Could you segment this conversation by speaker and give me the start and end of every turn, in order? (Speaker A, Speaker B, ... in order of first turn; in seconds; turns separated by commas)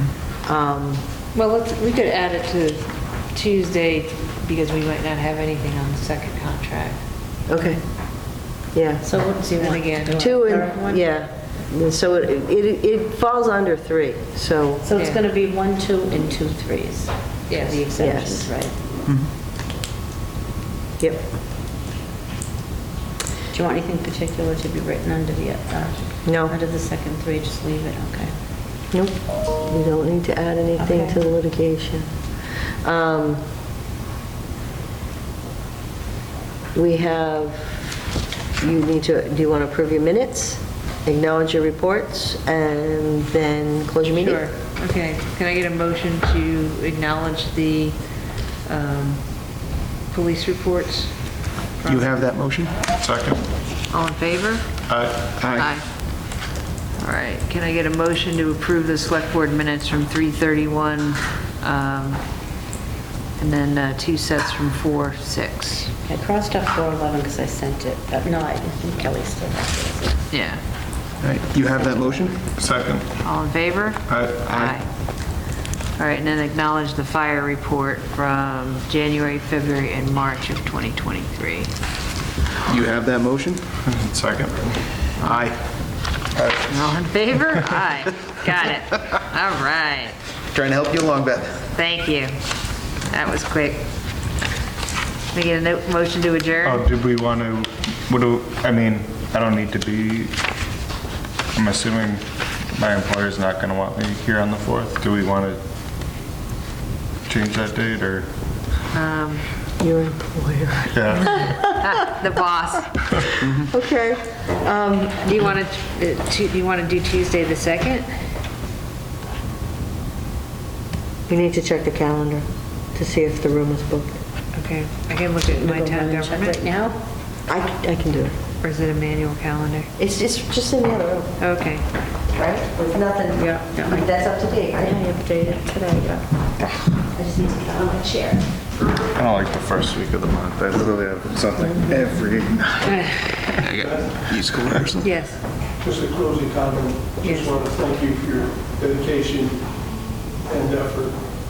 Speaker A: 0.4-1.0, Speaker B: 1.3-7.0, Speaker A: 7.5-7.8, Speaker A: 8.7-9.1, Speaker C: 9.1-11.0, Speaker B: 9.6-10.2, Speaker A: 10.1-14.9, Speaker C: 14.9-18.7, Speaker B: 14.9-15.2, Speaker B: 17.5-17.9, Speaker A: 17.9-18.5, Speaker C: 23.5-28.3, Speaker A: 26.2-26.6, Speaker A: 28.9-32.1, Speaker C: 30.8-31.1, Speaker A: 32.8-33.4, Speaker A: 36.7-37.9, Speaker A: 38.6-44.5, Speaker B: 44.2-48.0, Speaker B: 48.6-49.2, Speaker B: 50.1-51.1, Speaker B: 51.8-52.1, Speaker D: 51.8-52.7, Speaker E: 53.0-53.4, Speaker B: 53.9-54.6, Speaker E: 54.9-55.3, Speaker D: 55.4-55.7, Speaker B: 55.5-55.8, Speaker B: 57.0-62.2, Speaker B: 63.4-65.9, Speaker C: 66.0-70.1, Speaker B: 70.3-70.6, Speaker D: 71.2-72.5, Speaker E: 72.5-73.0, Speaker B: 73.2-74.8, Speaker E: 74.1-74.8, Speaker B: 76.0-81.7, Speaker D: 82.7-83.6, Speaker E: 83.8-84.8, Speaker D: 85.2-85.5, Speaker E: 86.3-87.0, Speaker B: 86.7-90.2, Speaker D: 90.5-91.7, Speaker B: 91.7-92.3, Speaker B: 93.1-93.8, Speaker B: 95.3-96.9, Speaker E: 96.6-100.3, Speaker E: 101.5-102.2, Speaker E: 102.7-105.6, Speaker E: 107.2-108.3, Speaker B: 108.9-109.4, Speaker A: 109.8-111.7, Speaker E: 110.9-111.4, Speaker B: 111.3-112.9, Speaker A: 113.4-115.3, Speaker B: 115.2-118.0, Speaker A: 121.3-124.1, Speaker B: 124.5-126.6, Speaker C: 125.5-127.0, Speaker A: 127.5-128.3, Speaker B: 128.6-129.9, Speaker A: 130.0-131.3, Speaker B: 131.4-131.8, Speaker A: 132.3-135.0, Speaker C: 133.4-134.0, Speaker C: 134.8-136.2, Speaker A: 137.3-138.4, Speaker E: 139.1-143.5, Speaker B: 142.8-143.3, Speaker D: 143.6-145.1, Speaker F: 143.7-144.6, Speaker B: 145.0-145.4, Speaker F: 145.8-149.6, Speaker B: 147.2-147.5, Speaker F: 150.4-151.2